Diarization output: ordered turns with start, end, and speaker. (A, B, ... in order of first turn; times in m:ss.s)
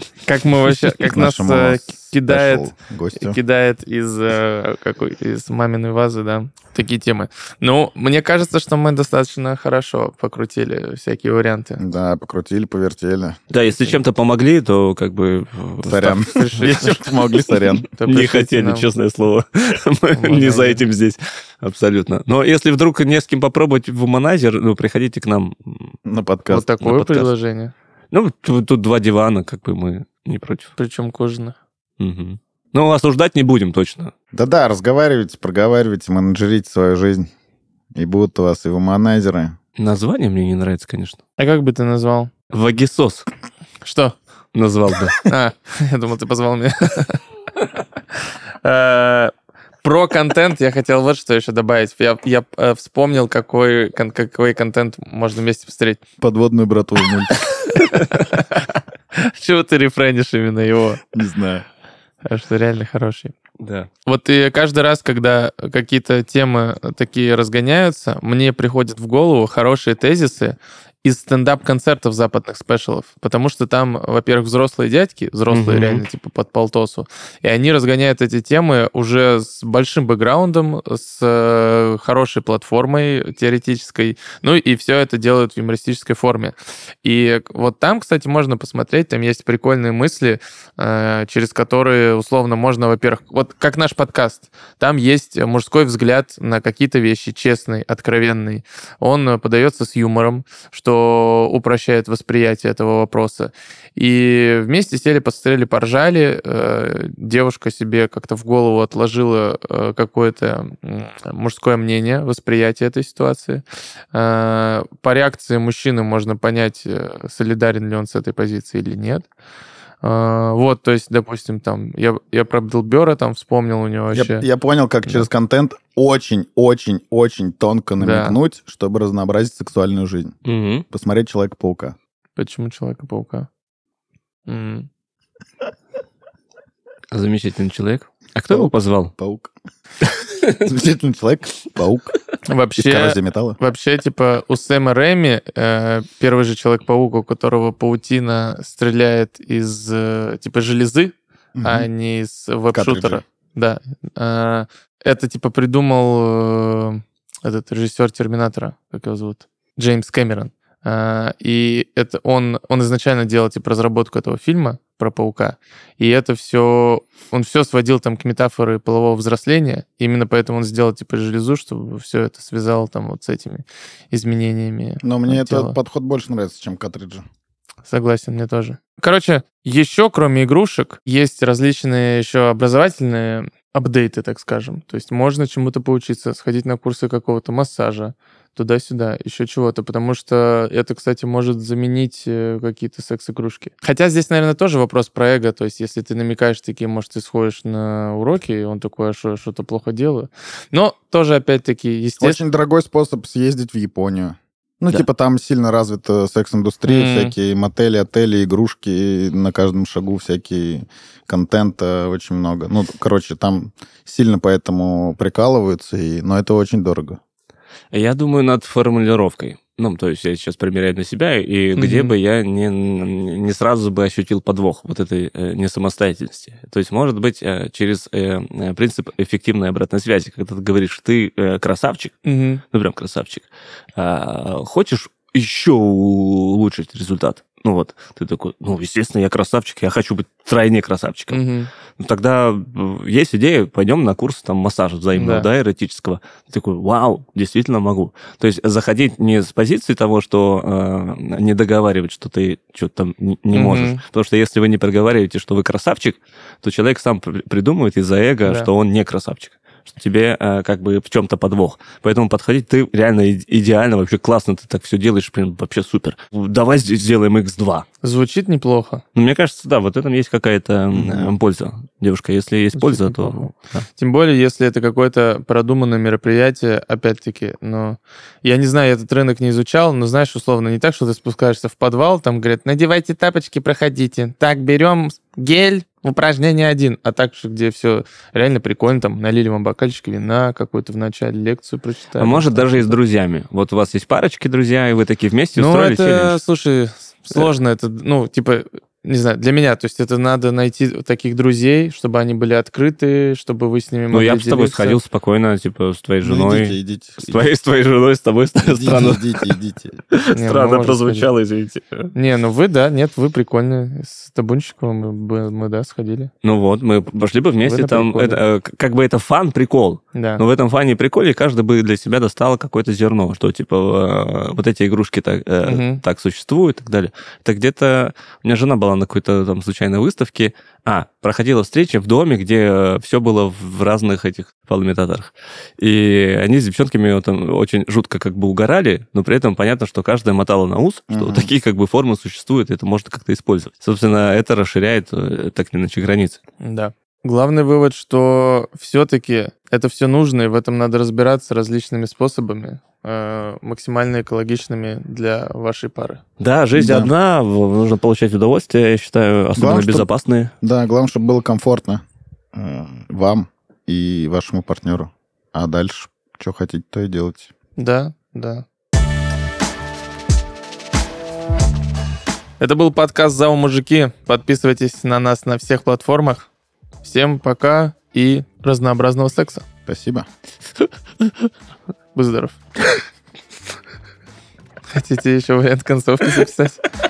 0:00.2-0:11.8 A
0:01.0-0:03.4 B
0:11.8-0:13.4 B
0:13.5-0:16.8 C
0:15.8-0:17.8 B
0:16.3-0:17.0 A
0:17.8-0:18.9 A
0:18.1-0:26.0 C
0:20.2-0:20.8 A
0:26.0-0:26.7 B
0:26.5-0:27.7 A
0:26.8-0:27.3 C
0:28.1-0:30.7 C
0:30.8-0:31.6 A
0:32.0-0:34.1 C
0:34.3-0:37.3 B
0:38.0-0:39.6 B
0:39.8-0:41.2 C
0:41.4-0:42.3 A
0:42.5-0:43.3 C
0:43.8-0:44.2 A
0:44.5-0:45.2 C
0:45.2-0:47.2 A
0:48.6-0:49.3 A
0:49.8-0:56.0 A
0:56.2-0:57.3 B
0:57.7-0:58.6 A
0:59.1-1:01.0 A
1:01.1-1:01.6 B
1:02.2-1:03.3 A
1:03.6-1:03.9 C
1:04.1-1:59.2 A
1:15.5-1:16.0 C
2:00.0-2:04.5 A
2:04.1-2:10.4 B
2:08.0-2:08.4 A
2:10.4-2:10.8 C
2:10.9-2:12.0 B
2:12.4-2:13.5 A
2:14.5-2:14.9 A
2:17.1-2:19.1 C
2:18.5-2:19.5 B
2:20.2-2:20.6 C
2:20.6-2:22.2 B
2:22.5-2:55.8 A
2:22.8-2:23.6 B
2:31.6-2:31.9 B
2:32.7-2:33.2 B
2:55.0-2:57.2 B
2:57.9-3:22.4 A
3:22.2-3:37.2 B
3:26.9-3:27.3 A
3:37.9-3:52.2 C
3:41.8-3:42.1 A
3:52.2-3:52.6 A
3:52.7-4:01.4 C
4:01.3-4:01.7 A
4:02.0-4:27.9 C
4:05.2-4:05.5 A
4:13.5-4:14.0 A
4:28.0-4:29.0 A
4:29.2-4:33.9 C
4:32.8-4:53.0 A
4:52.2-4:56.4 C
4:55.6-5:05.0 A
5:04.1-5:09.5 C
5:06.2-5:07.5 B
5:08.7-5:10.0 B
5:10.1-5:12.1 C
5:10.3-5:11.3 A
5:12.1-5:16.3 A
5:16.4-5:46.4 C
5:17.6-5:18.4 A
5:20.2-5:20.4 A
5:25.7-5:26.0 A
5:41.1-5:41.5 B
5:46.6-5:56.2 A
5:56.4-6:00.5 C
5:56.8-5:57.1 B
5:59.6-6:00.1 B
6:00.6-6:02.0 B
6:02.5-6:07.5 B
6:07.8-6:08.6 A
6:12.6-6:16.5 A
6:17.0-6:19.6 A
6:19.9-6:20.3 B
6:22.2-6:22.9 A
6:24.9-6:26.8 A